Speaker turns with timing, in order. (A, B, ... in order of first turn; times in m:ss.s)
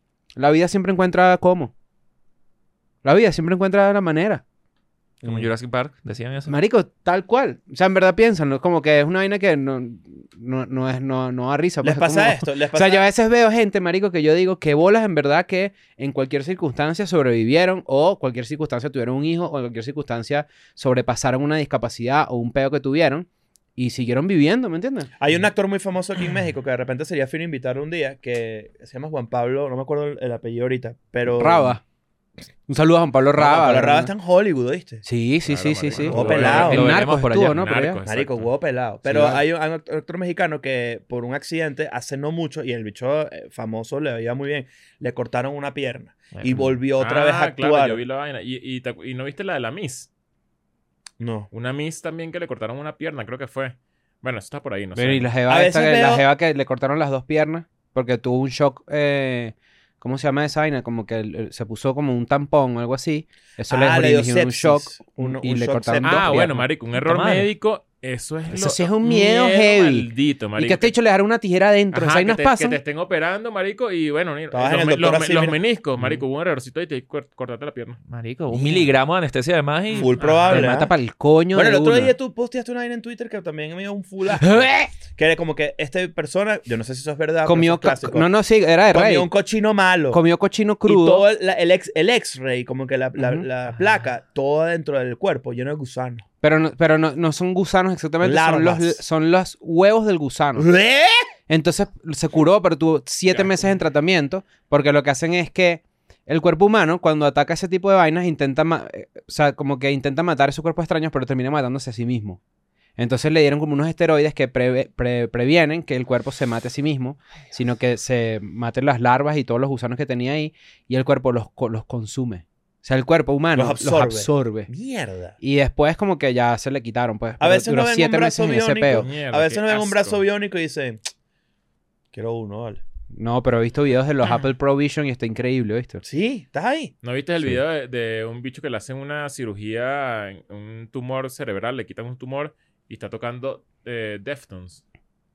0:00.4-0:01.7 A
0:03.0-0:04.4 A
0:05.2-0:05.5 B
0:05.2-0:06.6 C
0:06.5-0:25.1 A
0:11.8-0:13.1 B
0:25.2-0:31.8 B
0:31.3-0:31.8 A
0:32.7-0:34.1 A
0:33.4-0:35.0 B
0:35.0-0:38.0 A
0:35.4-0:38.5 D
0:36.0-0:37.6 C
0:36.1-0:36.9 B
0:38.1-0:48.0 B
0:39.0-0:39.4 A
0:46.4-0:46.6 C
0:47.0-0:50.1 D
0:51.2-0:51.5 B
0:51.5-0:55.3 D
0:55.0-1:06.6 A
0:55.5-0:56.2 B
1:03.7-1:06.4 B
1:06.0-1:11.0 D
1:06.9-1:07.5 C
1:08.5-1:12.8 A
1:11.9-1:18.0 D
1:14.5-1:15.6 B
1:18.1-1:20.6 C
1:18.5-1:18.9 A
1:19.9-1:20.9 B
1:20.0-1:20.6 D
1:20.5-1:22.1 A
1:21.5-1:28.3 B
1:24.5-1:24.7 A
1:27.4-1:29.3 A
1:28.9-1:30.2 B
1:30.1-1:31.3 A
1:30.8-1:36.2 B
1:33.2-1:33.4 A
1:36.4-1:40.7 A
1:38.2-1:39.0 B
1:40.6-1:41.3 B
1:41.5-1:52.4 A
1:53.0-2:04.7 A
2:03.5-2:05.4 B
2:05.4-2:09.1 A
2:07.4-2:11.0 B
2:08.9-2:10.2 D
2:12.1-2:12.8 B
2:13.1-2:16.0 A
2:16.0-2:16.9 B
2:17.0-2:24.8 D